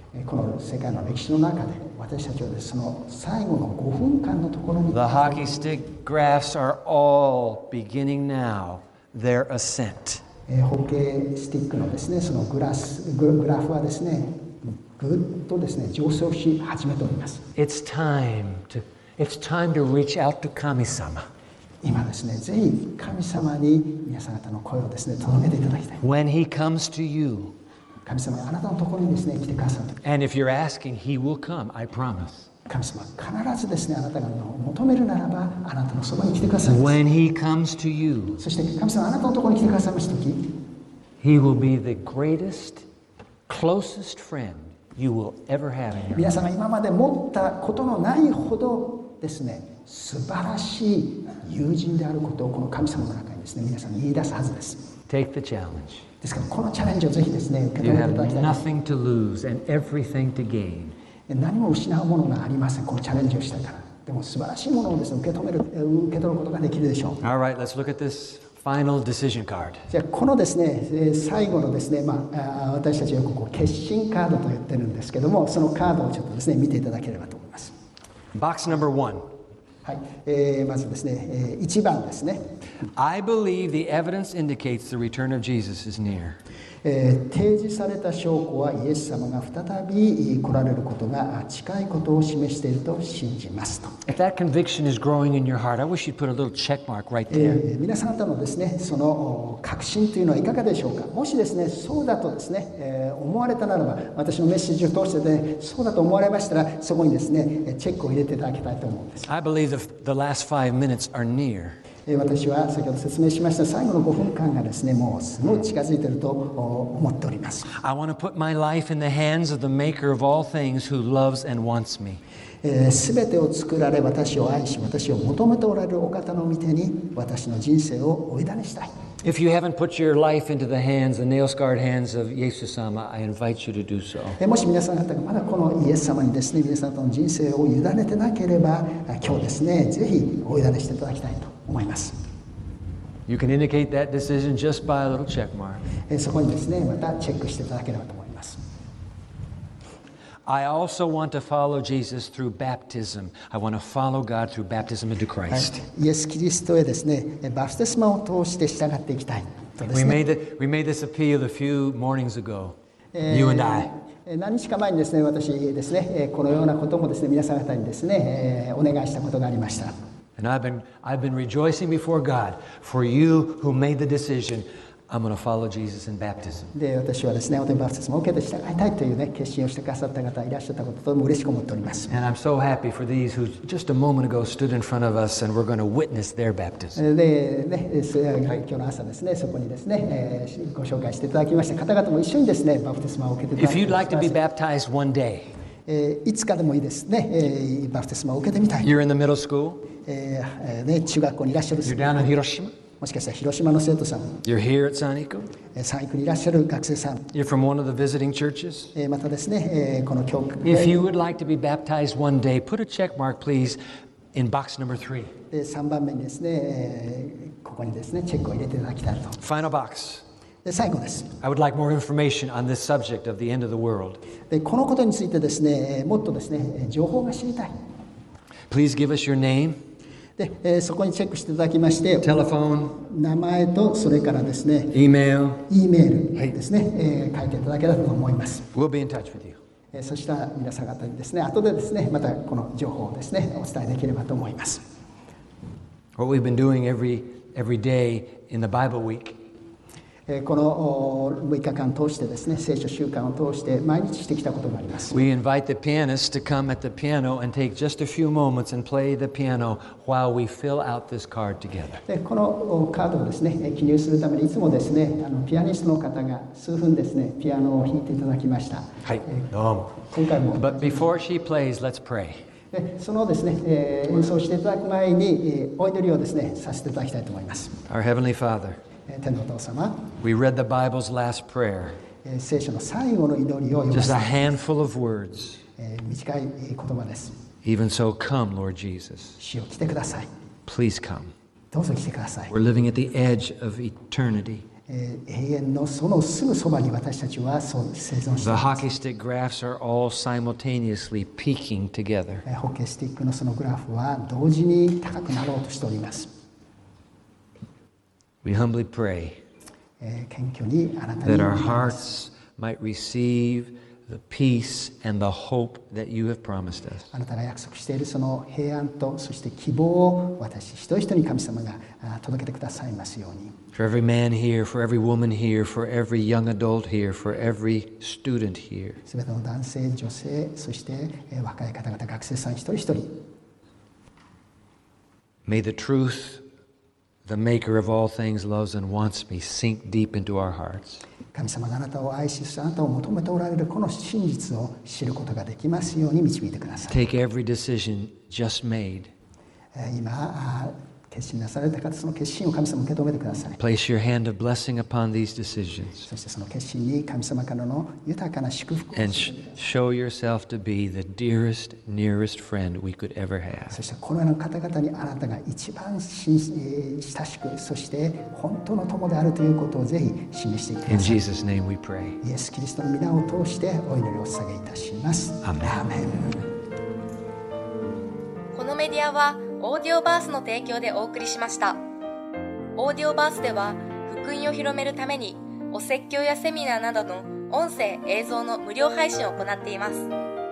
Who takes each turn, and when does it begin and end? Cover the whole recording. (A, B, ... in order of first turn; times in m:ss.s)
0:00.1-0:05.5 A
0:04.9-0:10.2 B
0:10.5-0:17.4 A
0:17.6-0:21.2 B
0:21.8-0:26.0 A
0:26.0-0:27.6 B
0:28.0-0:30.0 A
0:30.0-0:32.5 B
0:32.7-0:37.0 A
0:36.6-0:38.4 B
0:38.4-0:40.6 A
0:41.2-0:42.8 B
0:43.5-0:46.4 B
0:46.1-0:54.9 A
0:55.1-0:56.1 B
0:56.2-0:58.6 A
0:57.8-1:00.9 B
1:01.3-1:07.2 A
1:07.2-1:09.9 B
1:09.9-1:17.7 A
1:18.4-1:19.2 B
1:19.8-1:22.4 A
1:23.0-1:26.4 B
1:26.8-1:33.9 A
1:34.1-1:37.6 B
1:37.3-1:49.3 A
1:49.3-1:51.8 B
1:52.1-1:57.7 A
1:57.8-2:02.2 B
2:02.6-2:08.9 A
2:09.2-2:14.4 B
2:14.4-2:22.2 A
2:23.3-2:25.8 B
2:26.1-2:28.6 A
2:30.5-2:35.8 B
2:35.5-2:40.2 A
2:39.9-2:42.8 B
2:43.1-2:49.9 A
2:43.3-2:43.9 B
2:50.4-2:56.7 B
2:56.7-3:02.1 A
3:02.1-3:07.0 B
3:07.0-3:14.4 A
3:13.6-3:15.5 B
3:15.9-3:18.9 A
3:18.8-3:19.9 B
3:20.0-3:22.3 A
3:21.8-3:22.8 B
3:23.0-3:24.4 A
3:24.4-3:25.5 B
3:25.7-3:27.2 A
3:27.3-3:28.9 B
3:28.9-3:31.0 A
3:30.6-3:33.8 B
3:34.3-3:35.3 B
3:35.5-3:39.4 A
3:39.4-3:40.2 B
3:40.6-3:41.3 A
3:41.4-3:44.2 B
3:44.5-3:47.7 A
3:48.7-3:49.8 B
3:50.4-3:55.0 A
3:52.2-3:53.0 B
3:54.9-3:55.6 B
3:55.7-3:58.7 A
3:58.7-3:59.6 B
3:59.9-4:04.8 A
4:06.2-4:09.4 B
4:10.3-4:15.2 A
4:15.1-4:22.0 B
4:22.1-4:29.4 A
4:29.0-4:32.4 B
4:30.0-4:31.1 A
4:32.7-4:37.8 A
4:37.9-4:38.8 B
4:39.1-4:40.1 A
4:40.2-4:42.0 B
4:42.2-4:44.4 A
4:43.9-4:45.6 B
4:45.8-4:47.3 A
4:47.6-4:49.4 B
4:49.4-4:50.3 A
4:50.7-4:51.3 B
4:51.7-4:52.5 A
4:52.5-4:54.7 B
4:54.9-4:58.8 A
4:58.4-5:02.4 B
5:02.5-5:06.3 A
5:08.4-5:09.4 B
5:10.0-5:12.0 A
5:11.2-5:17.1 B
5:17.1-5:23.6 A
5:23.7-5:29.0 B
5:29.1-5:33.2 A
5:35.5-5:36.4 B
5:37.3-5:41.0 B
5:41.3-5:47.0 A
5:46.9-5:49.1 B
5:49.7-5:53.6 A
5:53.6-5:56.1 B
5:56.1-5:59.6 A
5:59.0-6:03.8 B
6:03.7-6:11.2 A
6:10.9-6:12.2 B
6:12.2-6:16.5 A
6:15.4-6:15.8 B
6:18.5-6:21.8 C
6:22.8-6:30.1 C